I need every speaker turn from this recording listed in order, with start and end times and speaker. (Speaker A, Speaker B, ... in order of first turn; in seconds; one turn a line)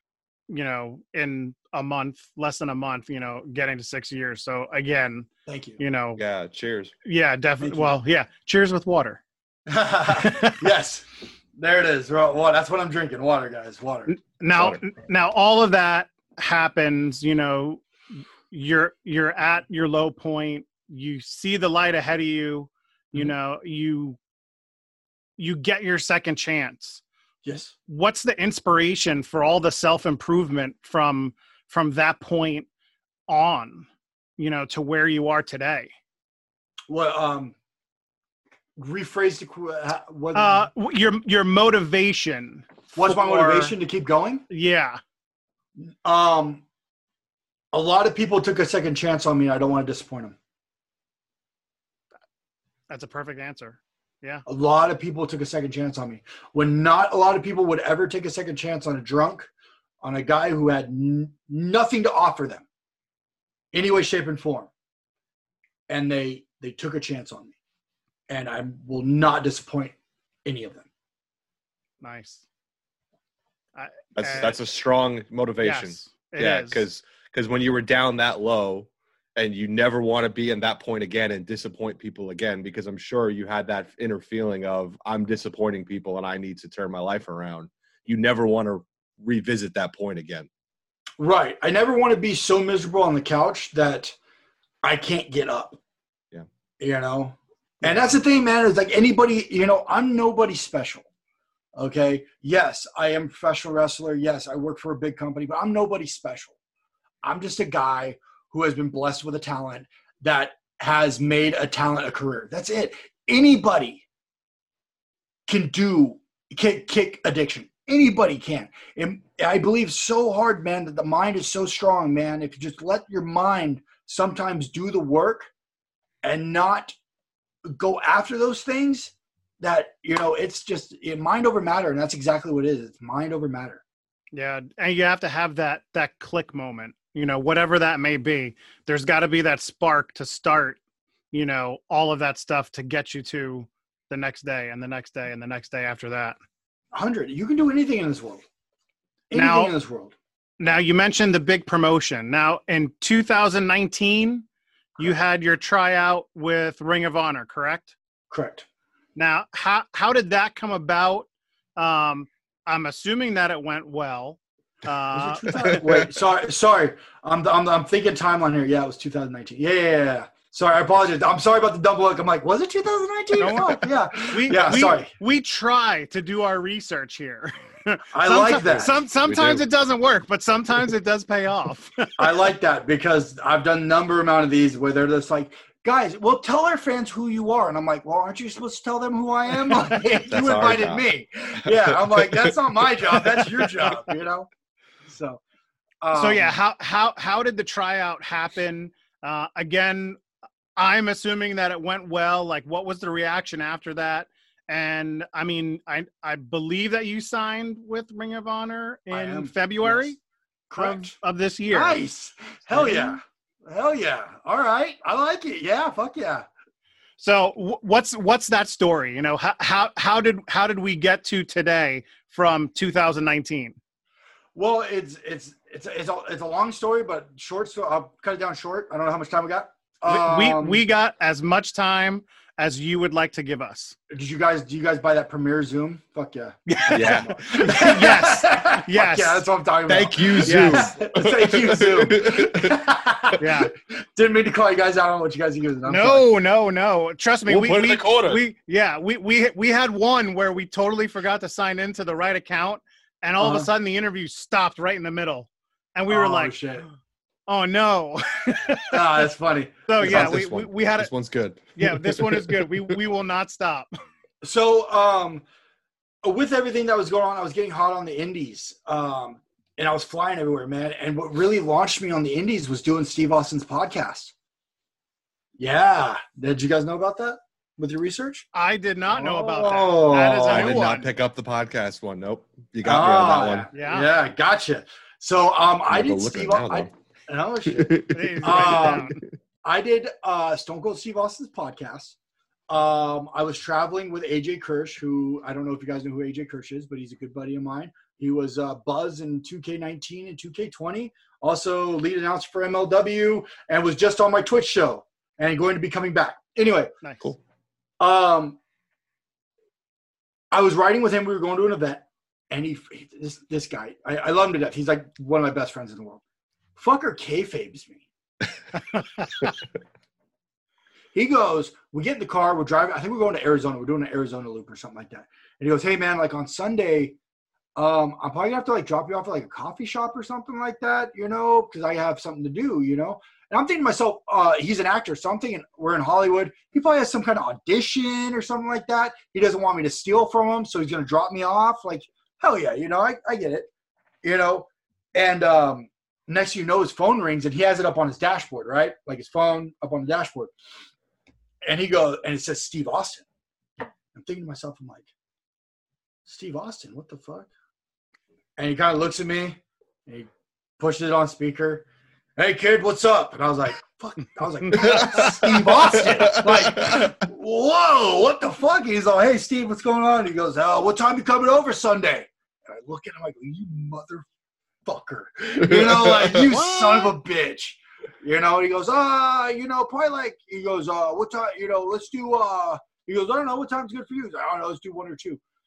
Speaker A: 0.5-6.2
Speaker B: 5.5-5.8
Speaker C: 6.2-6.9
Speaker A: 7.0-9.2
Speaker B: 7.6-8.0
Speaker B: 9.7-14.1
Speaker A: 10.2-10.6
Speaker A: 14.1-17.9
Speaker C: 14.6-14.8
Speaker A: 18.5-24.2
Speaker A: 25.4-27.0
Speaker B: 27.4-27.7
Speaker A: 27.9-32.7
Speaker A: 33.3-35.9
Speaker B: 36.9-37.5
Speaker B: 38.8-40.7
Speaker A: 40.3-43.8
Speaker B: 42.9-44.5
Speaker A: 44.5-45.0
Speaker B: 45.8-46.6
Speaker B: 47.7-50.4
Speaker A: 52.9-54.4
Speaker B: 54.5-59.5
Speaker B: 60.0-62.6
Speaker B: 63.7-64.7
Speaker B: 65.9-67.5
Speaker B: 68.3-70.9
Speaker A: 72.0-72.5
Speaker A: 73.8-74.6
Speaker C: 74.2-90.5
Speaker A: 75.6-76.8
Speaker B: 91.2-94.2
Speaker B: 94.8-95.8
Speaker B: 96.8-101.1
Speaker B: 101.8-106.5
Speaker B: 107.2-114.0
Speaker B: 115.5-125.5
Speaker B: 126.2-127.0
Speaker B: 127.7-133.8
Speaker A: 134.3-140.8
Speaker A: 141.3-146.4
Speaker B: 146.9-148.4
Speaker B: 149.3-150.2
Speaker A: 149.3-149.8
Speaker A: 150.6-154.5
Speaker A: 155.0-157.9
Speaker B: 158.3-158.7
Speaker A: 159.2-165.5
Speaker B: 165.1-175.1
Speaker C: 165.5-166.1
Speaker A: 173.4-182.2
Speaker B: 178.1-179.0
Speaker C: 179.2-179.6
Speaker B: 182.2-194.5
Speaker C: 190.2-191.1
Speaker C: 191.7-193.7
Speaker B: 195.1-195.4
Speaker B: 196.0-196.6
Speaker A: 196.1-200.2
Speaker A: 200.8-210.2
Speaker B: 209.1-210.2
Speaker B: 210.7-211.1
Speaker A: 210.8-212.0
Speaker B: 211.7-216.5
Speaker A: 212.7-213.2
Speaker A: 217.2-223.8
Speaker B: 224.5-230.8
Speaker A: 230.1-234.0
Speaker B: 234.1-246.3
Speaker A: 236.8-239.5
Speaker C: 236.9-237.4
Speaker C: 239.9-242.8
Speaker A: 240.4-240.9
Speaker A: 243.4-243.7
Speaker A: 245.9-256.6
Speaker C: 247.5-248.4
Speaker B: 253.4-253.7
Speaker B: 256.1-256.9
Speaker A: 257.5-259.1
Speaker B: 258.9-260.4
Speaker A: 259.9-261.1
Speaker C: 260.0-263.0
Speaker A: 261.8-263.9
Speaker B: 264.4-265.4
Speaker B: 266.2-274.3
Speaker B: 275.6-278.5
Speaker A: 278.5-281.1
Speaker B: 279.1-280.8
Speaker C: 280.2-283.7
Speaker B: 282.8-289.1
Speaker A: 283.7-284.1
Speaker C: 285.9-286.9
Speaker C: 287.7-289.1
Speaker A: 288.1-289.2
Speaker B: 289.6-292.1
Speaker B: 292.7-306.9
Speaker A: 307.0-307.3
Speaker B: 308.0-308.6
Speaker B: 310.5-316.2
Speaker B: 316.8-318.1
Speaker B: 321.1-327.2
Speaker B: 327.8-343.7
Speaker B: 344.2-350.5
Speaker B: 351.7-353.2
Speaker B: 354.1-355.1
Speaker B: 356.3-357.5
Speaker B: 358.6-374.3
Speaker C: 364.8-367.1
Speaker B: 374.9-385.4
Speaker C: 375.7-376.6
Speaker A: 376.7-377.1